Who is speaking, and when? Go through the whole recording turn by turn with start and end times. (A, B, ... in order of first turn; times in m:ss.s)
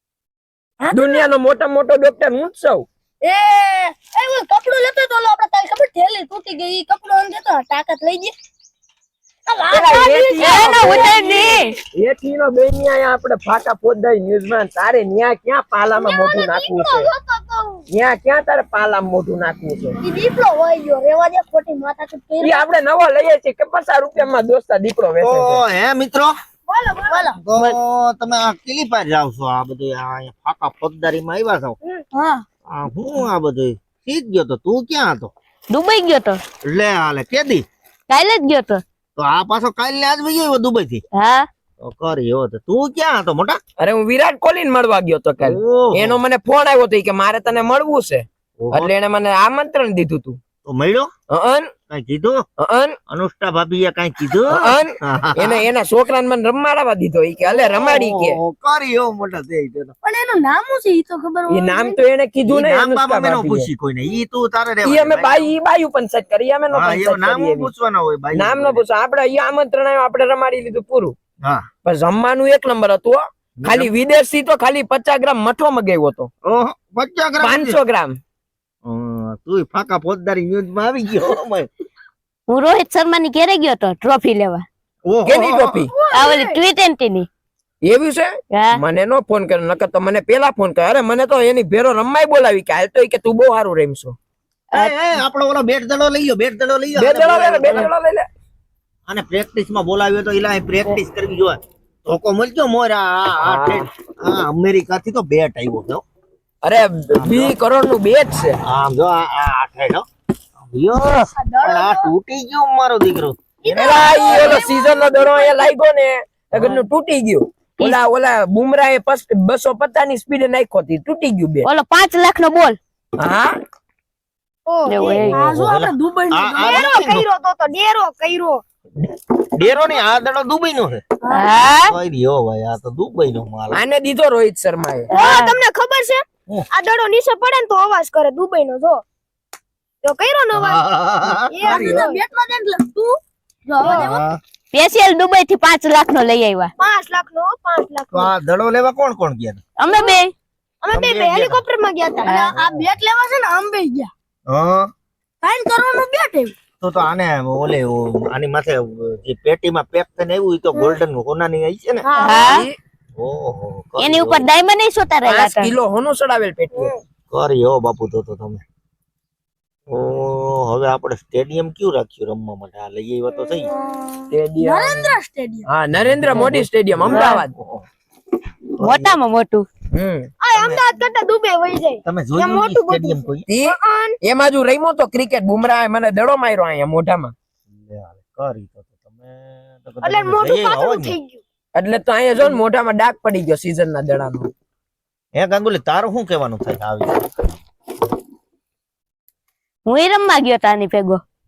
0:00.8-0:01.2 A
0:00.9-0:02.9 B
0:03.2-0:08.3 A
0:09.5-0:11.6 A
0:09.7-0:11.0 B
0:10.4-0:11.8 C
0:11.9-0:17.1 B
0:15.9-0:17.8 D
0:17.9-0:20.0 B
0:20.0-0:22.7 A
0:22.4-0:25.6 B
0:25.2-0:26.3 E
0:26.7-0:27.3 D
0:27.1-0:27.4 A
0:27.4-0:31.8 E
0:32.1-0:32.4 A
0:32.7-0:35.3 E
0:35.7-0:36.4 C
0:36.6-0:37.6 E
0:38.1-0:38.8 C
0:39.2-0:41.0 E
0:41.1-0:41.5 C
0:41.8-0:43.6 E
0:43.8-0:50.4 B
0:45.4-0:46.2 E
0:48.6-0:48.9 E
0:50.6-0:51.1 E
0:51.3-0:51.7 B
0:51.9-0:52.4 E
0:52.6-0:53.0 B
0:53.1-0:55.6 E
0:54.4-0:58.4 B
0:57.5-0:59.9 E
1:00.0-1:02.0 A
1:01.5-1:03.7 B
1:02.5-1:05.5 E
1:04.8-1:07.7 B
1:06.7-1:08.8 E
1:08.3-1:11.1 B
1:11.8-1:16.3 B
1:13.6-1:13.9 E
1:16.4-1:17.8 E
1:17.4-1:18.2 B
1:18.8-1:21.7 E
1:22.5-1:24.6 C
1:25.1-1:25.9 E
1:25.3-1:26.0 B
1:25.9-1:26.6 D
1:26.1-1:27.3 C
1:27.8-1:34.2 B
1:28.5-1:28.8 C
1:34.7-1:37.9 E
1:36.9-1:38.3 B
1:39.1-1:46.0 E
1:43.4-1:43.9 B
1:46.6-1:48.6 B
1:47.1-1:47.6 E
1:48.6-1:50.0 E
1:50.6-1:54.6 E
1:51.3-1:52.1 A
1:53.6-1:55.8 A
1:53.8-2:01.6 B
1:56.5-1:56.8 E
2:01.6-2:02.8 C
2:03.2-2:03.6 B
2:04.7-2:05.4 D
2:04.9-2:05.4 C
2:05.3-2:06.9 A
2:05.3-2:07.2 E
2:06.6-2:08.6 D
2:09.0-2:11.0 E
2:09.6-2:10.0 D
2:11.2-2:11.6 A
2:11.3-2:11.9 C
2:11.9-2:13.8 E
2:13.7-2:15.2 B
2:15.1-2:15.6 C
2:15.1-2:19.0 D
2:20.0-2:20.8 D
2:20.6-2:22.1 E
2:21.5-2:22.2 D
2:21.6-2:24.2 A
2:23.8-2:24.1 D
2:23.8-2:24.4 E
2:24.7-2:26.7 C
2:26.8-2:28.3 D
2:28.1-2:29.6 E
2:29.8-2:30.3 C
2:29.9-2:30.2 D
2:30.8-2:32.5 D
2:30.9-2:31.6 E
2:32.2-2:32.5 C
2:32.4-2:34.1 A
2:32.6-2:32.9 E
2:34.5-2:34.9 E
2:35.4-2:36.5 A
2:36.8-2:42.1 E
2:42.0-2:42.6 D
2:42.2-2:42.6 C
2:42.4-2:42.8 B
2:43.2-2:44.5 E
2:44.0-2:45.7 C
2:45.2-2:46.9 B
2:47.3-2:48.6 E
2:49.9-2:53.7 E
2:53.8-2:55.7 A
2:54.3-2:57.5 B
2:56.0-2:57.9 E
2:57.1-2:57.4 C
2:58.8-2:59.2 E
2:58.8-2:59.7 C
2:59.9-3:00.3 B
3:00.4-3:04.2 D
3:00.5-3:00.8 E
3:02.0-3:03.4 E
3:03.5-3:07.3 B
3:07.7-3:11.2 E
3:10.0-3:11.4 D
3:11.7-3:14.5 B
3:15.4-3:17.4 E
3:19.8-3:21.2 C